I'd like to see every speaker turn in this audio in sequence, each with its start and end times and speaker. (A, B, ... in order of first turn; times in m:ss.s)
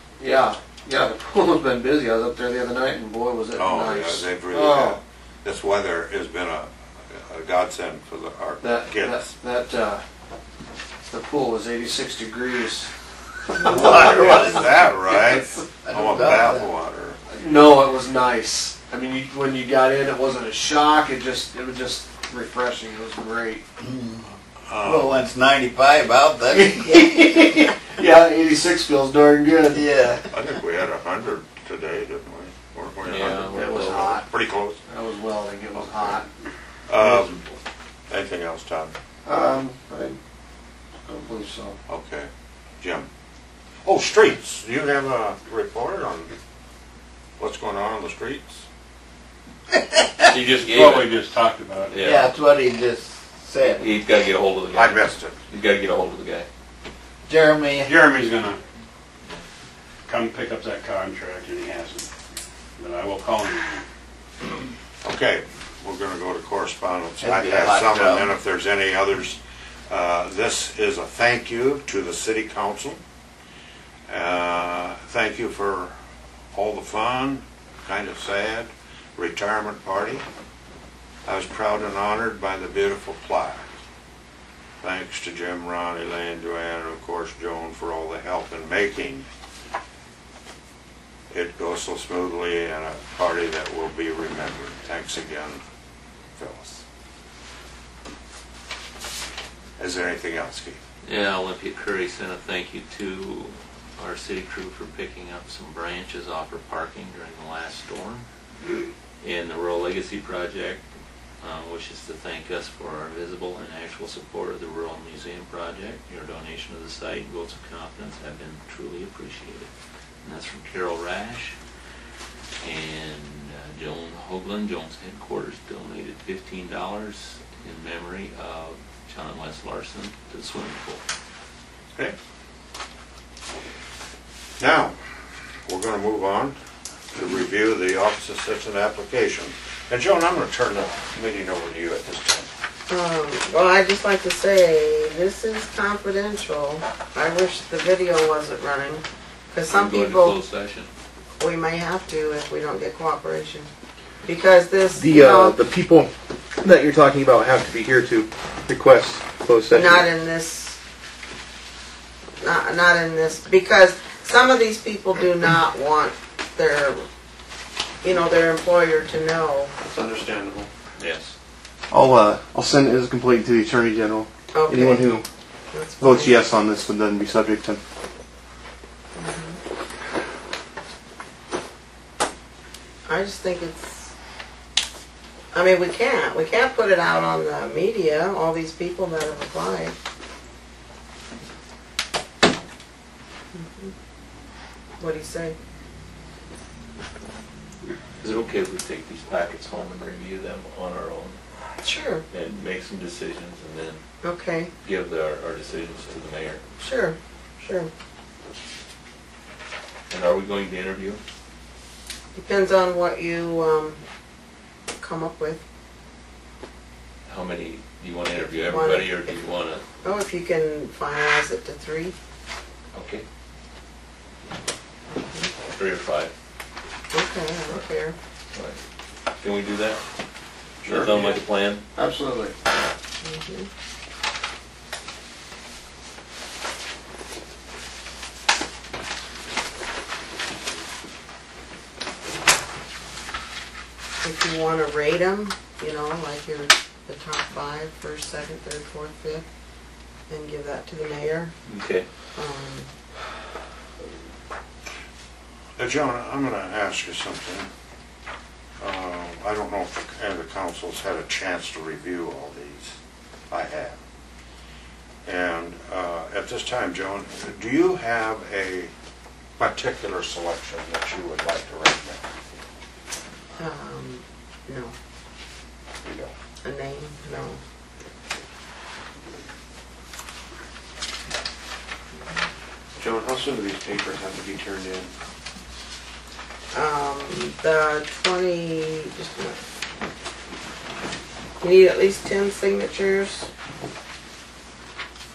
0:00.2-0:05.0 A
0:03.5-0:09.2 B
0:08.6-0:10.0 A
0:11.1-0:12.9 A
0:13.6-0:16.7 C
0:13.6-0:17.2 B
0:13.6-0:14.5 A
0:17.3-0:23.6 A
0:24.7-0:25.2 B
0:24.8-0:27.2 C
0:26.5-0:29.8 A
0:29.7-0:30.2 C
0:30.3-0:34.8 B
0:33.0-0:34.2 D
0:33.5-0:34.2 A
0:34.9-0:36.3 A
0:36.9-0:37.4 B
0:38.1-0:38.9 B
0:39.2-0:40.2 A
0:41.0-0:41.8 A
0:41.9-0:42.3 B
0:42.8-0:43.1 B
0:43.8-0:46.3 B
0:47.4-0:48.6 B
0:49.8-0:50.0 C
0:50.2-0:51.2 D
0:50.4-0:52.1 E
0:51.9-0:52.3 D
0:52.0-0:54.0 C
0:53.8-0:56.5 D
0:54.7-0:55.4 B
0:57.3-0:57.9 C
0:57.8-0:58.6 E
1:00.1-1:02.1 E
1:02.8-1:03.8 E
1:05.0-1:13.0 B
1:07.2-1:08.3 C
1:14.1-1:15.9 B
1:16.5-1:20.2 B
1:21.2-1:23.7 B
1:24.8-1:29.2 B
1:31.3-1:35.6 B
1:36.4-1:36.8 B
1:39.8-1:40.8 B
1:41.0-1:48.2 D
1:49.2-1:50.8 D
1:51.4-1:59.7 D
2:00.2-2:01.6 D
2:02.6-2:11.0 D
2:14.6-2:15.0 B
2:15.7-2:16.6 B
2:17.1-2:22.5 B
2:22.9-2:30.4 F
2:29.7-2:30.9 D
2:31.4-2:33.7 F
2:34.2-2:35.6 F
2:35.0-2:36.1 G
2:36.6-2:40.0 G
2:39.7-2:40.8 F
2:42.4-2:47.0 F
2:48.0-2:49.7 F
2:51.0-2:51.3 D
2:51.9-2:55.2 G
2:54.5-2:55.2 F
2:55.7-2:56.5 F
2:56.0-2:57.8 G
2:59.2-2:59.6 F
3:03.0-3:04.1 F
3:05.5-3:10.0 F
3:13.5-3:13.9 F
3:15.0-3:15.6 F
3:18.2-3:21.4 D
3:21.8-3:22.2 F
3:22.3-3:24.0 D
3:24.2-3:24.7 F
3:24.8-3:26.6 D
3:26.8-3:27.9 F
3:30.1-3:31.2 D
3:32.3-3:34.0 F
3:35.0-3:35.6 F
3:37.2-3:39.8 D
3:38.4-3:39.5 F
3:40.0-3:42.1 F
3:42.9-3:43.2 D
3:45.2-3:45.5 F
3:45.6-3:46.3 D
3:47.1-3:48.2 F
3:48.5-3:48.8 D
3:49.4-3:50.0 D
3:50.8-3:51.8 D
3:50.8-3:51.3 A
3:51.9-3:52.5 A
3:53.2-3:53.7 F
4:04.2-4:09.4 F
4:10.3-4:11.5 F
4:11.6-4:12.1 D
4:12.3-4:12.9 F
4:15.8-4:17.7 B
4:18.8-4:22.9 B
4:23.5-4:24.0 B
4:25.2-4:28.9 B
4:29.6-4:32.2 B
4:33.6-4:34.9 F
4:36.0-4:36.3 B
4:36.6-4:37.6 F
4:43.0-4:44.9 A
4:46.7-4:49.6 F
4:51.6-4:53.5 F